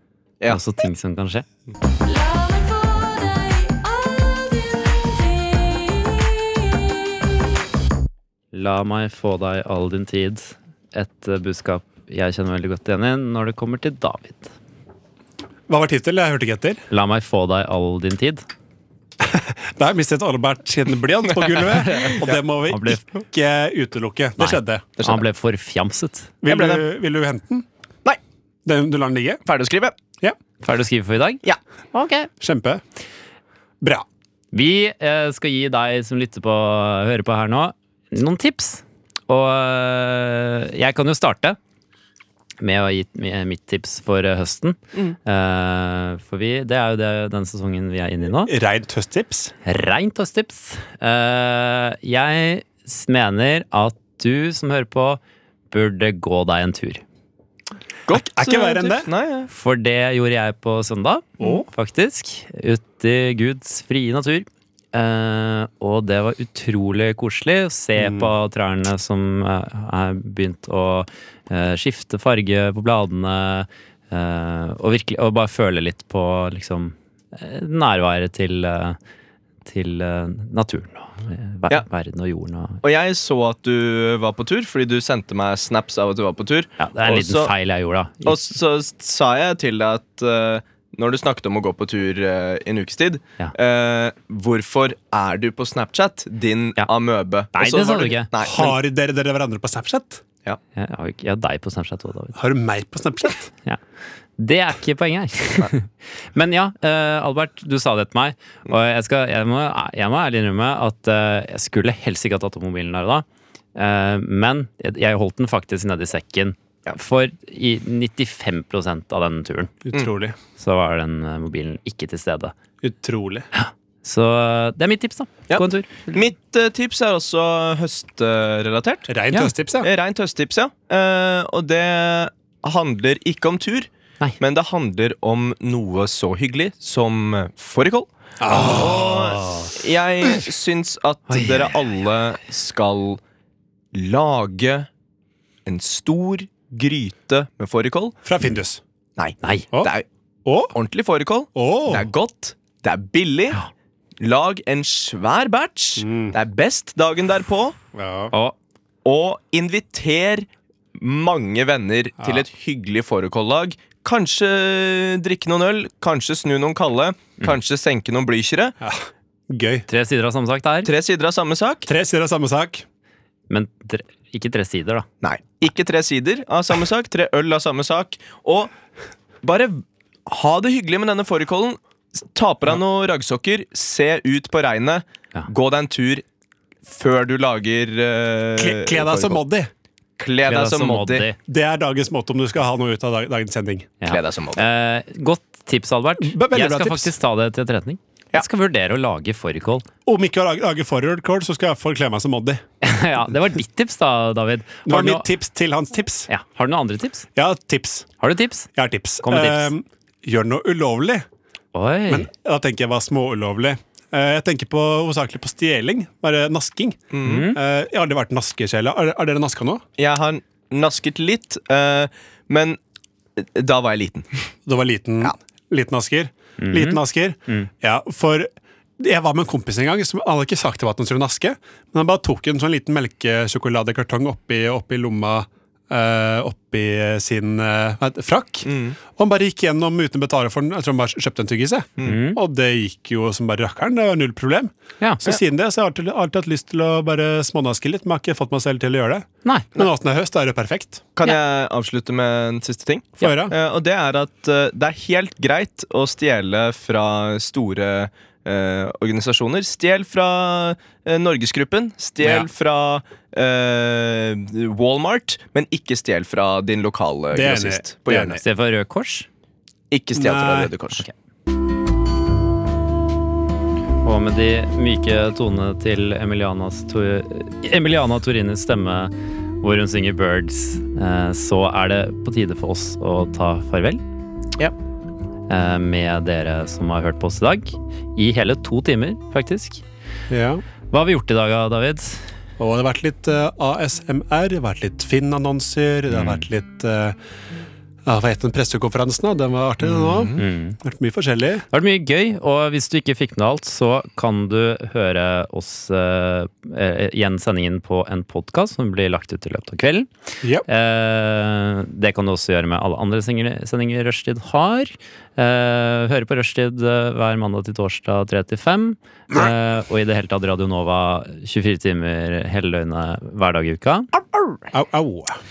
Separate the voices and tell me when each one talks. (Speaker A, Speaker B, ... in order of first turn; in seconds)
Speaker A: 0.5-1.5, 8.5-14.5, 16.9-18.4, 21.8-23.0, 24.4-26.7, 30.6-31.4, 31.9-32.3, 34.5-41.6, 42.6-48.5, 49.6-55.2, 55.7-57.0, 59.5-79.0, 79.7-82.8, 86.8-88.4, 97.5-98.3, 100.8-102.4, 104.4-119.8, 120.6-122.5, 123.5-126.1, 141.3-141.7, 149.4-149.7, 169.9-170.9, 173.5-175.1, 190.5-191.4, 194.0-199.9, 202.8-205.3, 206.3-207.3, 208.2-208.7, 209.2-209.7, 211.7-212.3, 217.2-217.6, 226.6-227.7, 242.0-242.4, 268.4-269.3, 274.0-284.0, 285.5-289.8, 290.9-292.3, 296.1-296.4, 300.4-300.8, 301.7-310.1, 310.7-324.1
Speaker B: 15.7-16.8, 19.2-24.9, 26.4-27.7, 28.6-29.4, 32.4-32.8, 33.8-34.1, 48.5-49.5, 58.1-59.1, 61.4-61.7, 68.0-68.3, 98.4-100.2, 102.3-103.5, 119.8-120.4, 122.8-123.5, 129.1-129.9, 138.4-139.7, 148.2-148.8, 150.4-150.7, 151.6-152.1, 156.0-156.3, 157.9-158.3, 168.8-169.9, 171.8-172.9, 188.6-189.7, 191.5-193.9, 196.2-197.2, 200.1-202.6, 204.9-206.3, 207.3-208.1, 208.8-211.2, 212.1-219.8, 224.7-251.1, 253.2-253.5, 267.3-268.4, 270.2-270.7, 290.3-290.6, 292.6-297.2, 298.1-301.6, 324.7-325.4
Speaker C: 25.0-25.2, 29.5-29.9, 58.1-59.5, 82.8-87.5, 88.2-98.8, 125.5-129.1, 129.8-133.9, 134.4-143.2, 143.9-144.9, 145.7-148.2, 149.2-150.1, 150.7-153.6, 154.2-157.8, 159.1-168.7, 170.8-171.9, 175.2-178.7, 179.4-186.2, 186.9-189.4, 190.2-191.3, 194.1-194.6, 217.1-217.5, 220.0-222.8, 223.4-224.5, 238.7-239.0, 251.2-268.4, 269.9-271.1, 299.9-300.4